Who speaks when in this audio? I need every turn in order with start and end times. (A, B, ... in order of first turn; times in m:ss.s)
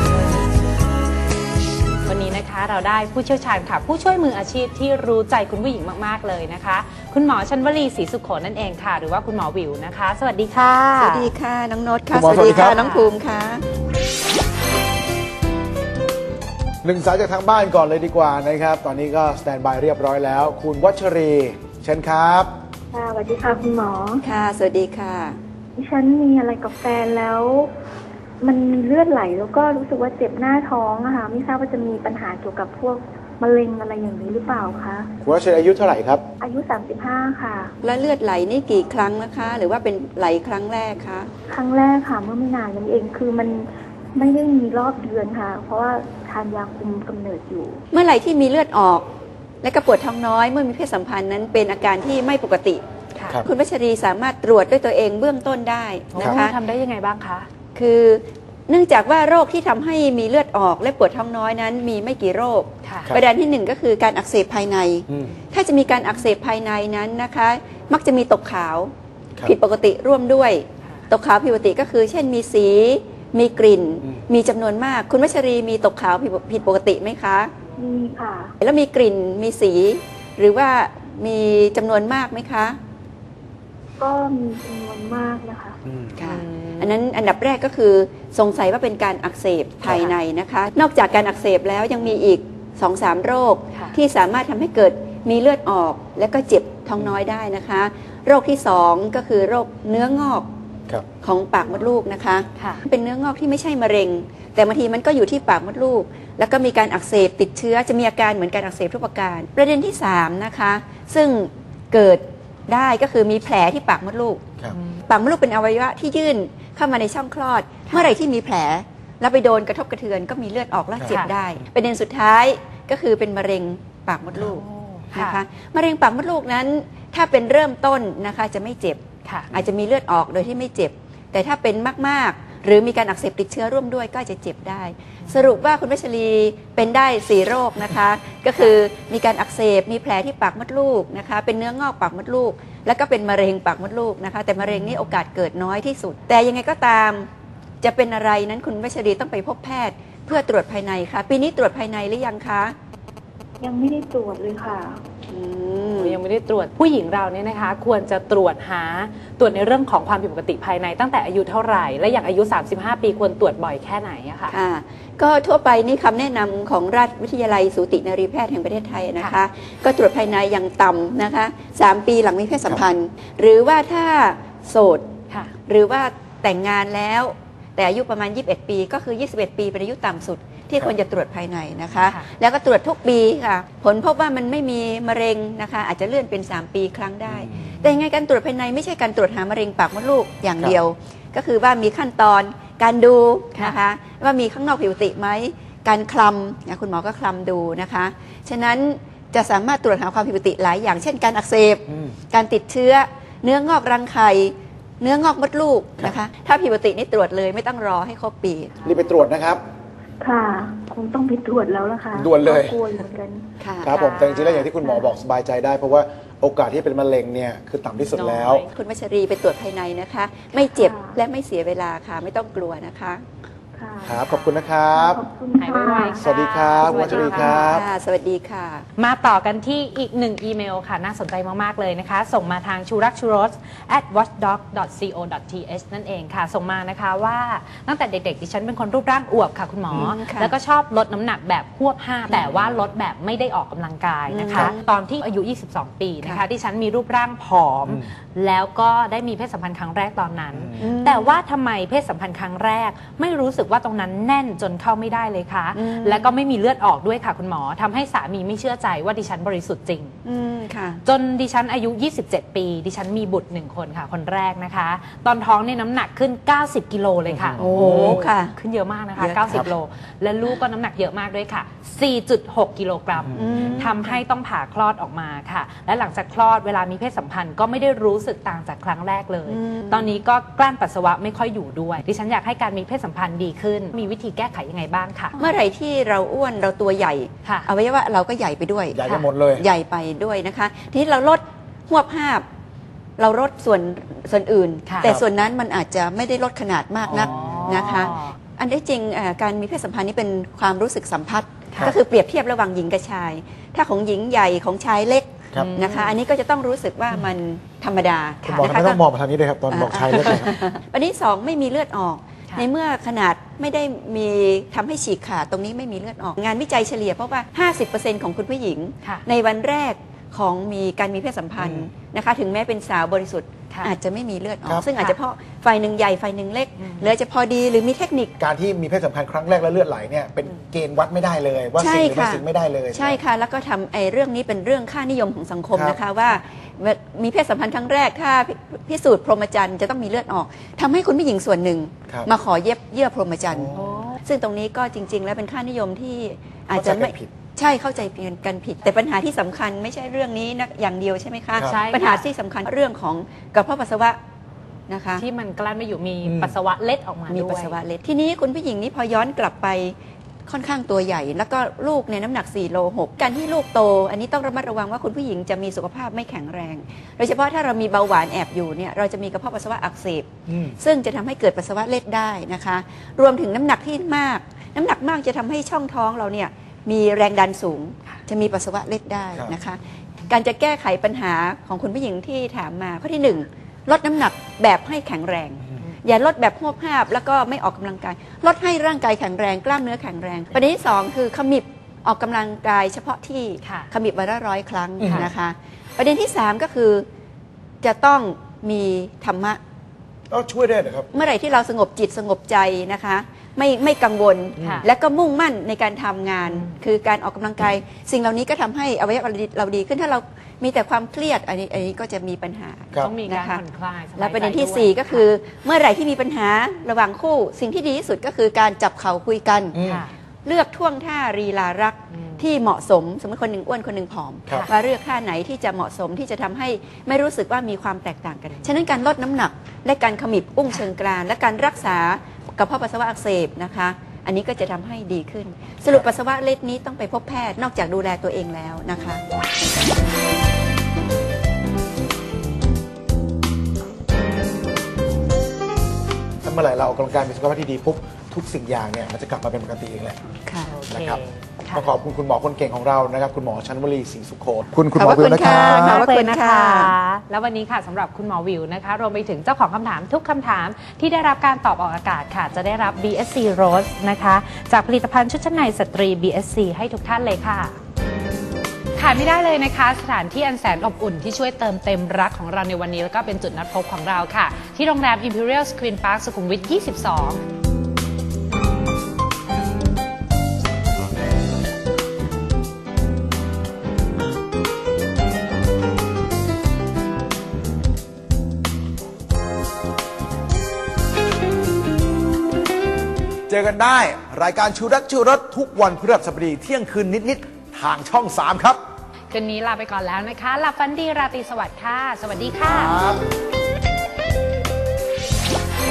0:02.1-0:11.3 A
0:11.0-0:13.6 B
0:12.1-0:12.8 C
0:12.5-0:13.1 A
0:16.8-0:22.5 C
0:22.9-0:24.2 D
0:24.2-0:25.4 B
0:25.8-0:27.7 D
0:28.4-0:35.1 D
0:35.2-0:36.2 C
0:36.4-0:37.7 D
0:37.8-0:41.3 B
0:41.5-0:47.8 D
0:47.9-0:49.0 B
0:49.6-0:52.8 B
0:53.1-0:53.4 A
0:53.4-0:56.6 B
0:56.1-0:57.5 A
0:57.7-1:08.9 B
1:02.8-1:03.1 A
1:05.1-1:05.3 C
1:09.4-1:17.5 B
1:10.8-1:11.1 A
1:17.8-1:18.5 D
1:18.6-1:22.8 B
1:24.0-1:25.8 D
1:25.9-1:26.1 C
1:26.2-1:40.5 B
1:26.2-1:27.0 A
1:33.7-1:34.0 A
1:41.2-1:54.5 B
1:42.6-1:42.8 A
1:54.7-1:55.0 A
1:55.0-2:27.3 B
2:01.0-2:01.3 A
2:04.4-2:05.4 A
2:09.2-2:09.5 A
2:15.2-2:15.5 A
2:24.6-2:25.2 A
2:27.8-2:32.7 B
2:33.6-2:35.0 D
2:35.3-2:36.2 B
2:36.0-2:44.6 A
2:44.5-2:55.0 B
2:55.7-3:28.8 B
3:02.0-3:02.2 A
3:07.3-3:07.7 C
3:07.6-3:08.0 A
3:28.8-3:29.6 C
3:30.2-3:33.4 D
3:32.1-3:32.8 C
3:33.6-3:34.0 B
3:33.8-3:38.6 C
3:33.9-3:34.7 A
3:38.2-3:38.7 A
3:38.5-3:43.2 B
3:40.5-3:41.2 D
3:43.8-3:44.2 D
3:44.0-3:45.2 C
3:44.2-3:44.6 A
3:44.9-3:46.2 D
3:45.6-3:47.7 A
3:46.1-3:47.8 C
3:46.8-3:47.7 D
3:47.6-3:48.8 B
3:49.0-4:20.1 A
3:59.9-4:00.5 B
4:02.5-4:02.8 C
4:04.3-4:04.7 B
4:10.5-4:10.8 C
4:10.8-4:11.4 B
4:15.7-4:16.3 B
4:20.2-4:21.0 B
4:21.0-4:45.5 A
4:27.2-4:28.2 C
4:27.6-4:28.5 B
4:29.2-4:29.6 B
4:33.2-4:33.8 C
4:33.3-4:34.2 B
4:39.5-4:40.1 B
4:45.4-4:49.0 B
4:48.9-4:49.7 C
4:49.5-4:52.4 B
4:53.2-5:09.0 B
4:54.8-4:55.1 A
4:57.1-4:58.3 A
4:57.1-4:58.1 C
5:05.5-5:06.1 A
5:08.4-5:10.6 C
5:09.7-5:28.3 B
5:21.6-5:21.9 C
5:26.8-5:27.1 A
5:28.4-5:33.2 C
5:31.8-5:43.7 B
5:35.7-5:36.0 C
5:43.5-5:43.9 C
5:43.7-5:44.2 A
5:44.2-5:54.2 B
5:46.7-5:47.3 C
5:51.6-5:52.2 A
5:54.9-5:55.2 B
5:55.2-5:57.8 A
5:56.2-5:56.5 C
5:57.3-5:59.9 B
6:00.5-6:37.1 B
6:10.5-6:10.7 C
6:33.6-6:33.9 A
6:35.0-6:35.3 C
6:35.0-6:35.3 A
6:37.8-6:39.6 B
6:40.3-6:41.1 C
6:41.1-6:53.6 B
6:44.6-6:44.9 A
6:46.5-6:46.7 A
6:53.0-6:55.3 A
6:54.2-6:59.8 B
6:59.7-7:00.0 C
6:59.8-7:00.1 A
7:00.4-7:19.2 B
7:02.1-7:02.5 A
7:26.4-7:30.2 C
7:30.4-7:30.7 B
7:30.6-7:31.9 A
7:30.9-7:31.2 C
7:31.7-7:36.0 C
7:35.0-7:36.9 B
7:35.4-7:47.8 A
7:49.0-7:57.4 A
8:13.5-8:18.8 C
8:19.3-8:23.0 A
8:22.6-8:23.2 C